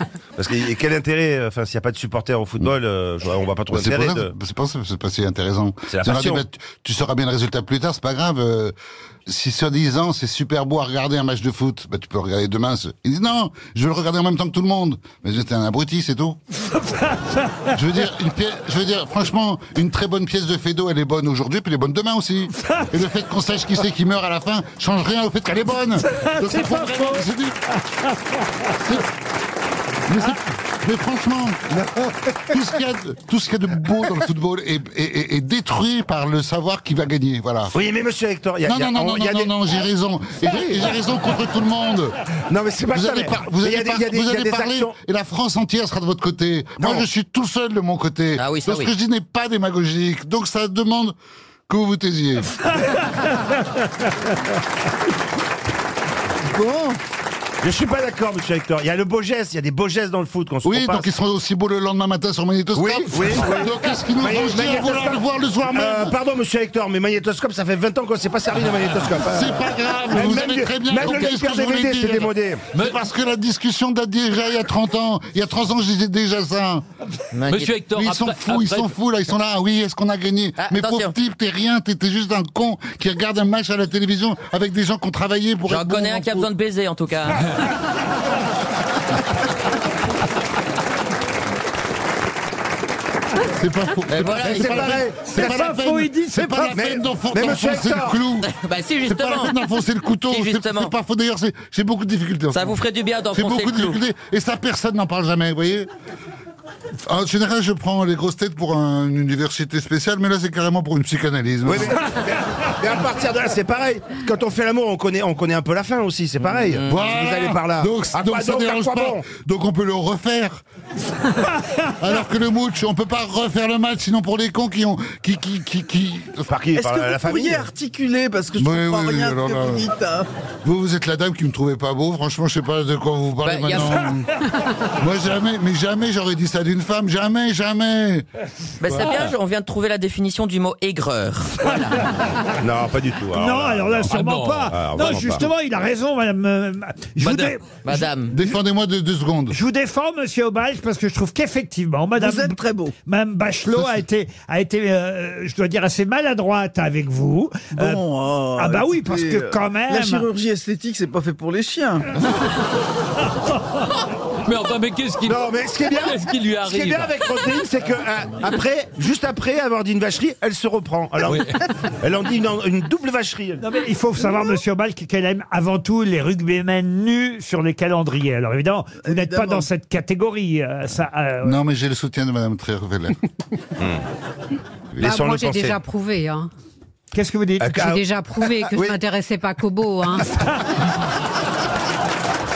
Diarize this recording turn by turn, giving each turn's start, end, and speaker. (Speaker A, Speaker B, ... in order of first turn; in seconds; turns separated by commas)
Speaker A: 0.3-4.3, Speaker B: 3.7-8.8, Speaker A: 5.9-6.5, Speaker B: 9.3-16.4, Speaker B: 17.7-27.6, Speaker B: 28.7-29.1, Speaker B: 30.1-31.8, Speaker B: 32.5-37.8, Speaker A: 37.7-39.5, Speaker B: 38.6-42.1, Speaker A: 40.4-40.9, Speaker A: 42.5-45.0, Speaker B: 42.9-51.2, Speaker A: 46.8-47.1, Speaker C: 48.4-48.9, Speaker B: 51.7-52.6, Speaker D: 56.5-57.0, Speaker A: 57.6-61.1, Speaker B: 60.6-66.2, Speaker A: 62.7-72.7, Speaker B: 69.3-76.8, Speaker C: 77.4-77.7, Speaker E: 77.5-78.9, Speaker B: 77.9-86.5, Speaker C: 80.6-81.0, Speaker C: 85.7-87.4, Speaker B: 93.4-102.8, Speaker A: 94.4-95.8, Speaker F: 95.3-96.8, Speaker A: 96.6-98.3, Speaker C: 98.5-99.4, Speaker C: 100.3-100.9, Speaker C: 102.5-104.0, Speaker B: 103.3-105.9, Speaker B: 107.0-112.0, Speaker A: 111.7-119.3, Speaker B: 116.8-120.6, Speaker B: 121.9-126.5, Speaker A: 126.5-127.7, Speaker D: 126.8-130.3, Speaker B: 128.6-129.9, Speaker B: 130.6-138.3, Speaker C: 133.4-134.0, Speaker C: 138.8-141.8, Speaker A: 142.6-145.5, Speaker F: 143.3-148.1, Speaker E: 144.1-145.1, Speaker E: 147.2-147.7, Speaker C: 147.9-148.3, Speaker B: 148.3-149.6, Speaker F: 149.5-160.3, Speaker D: 152.2-152.9, Speaker D: 157.8-162.2, Speaker E: 164.5-167.2, Speaker A: 165.2-173.6, Speaker E: 171.2-171.6, Speaker F: 173.6-181.6, Speaker D: 179.1-179.7, Speaker B: 181.4-183.2, Speaker A: 185.0-185.8, Speaker G: 185.0-186.5, Speaker F: 187.1-187.9, Speaker A: 187.6-189.0, Speaker G: 187.8-190.3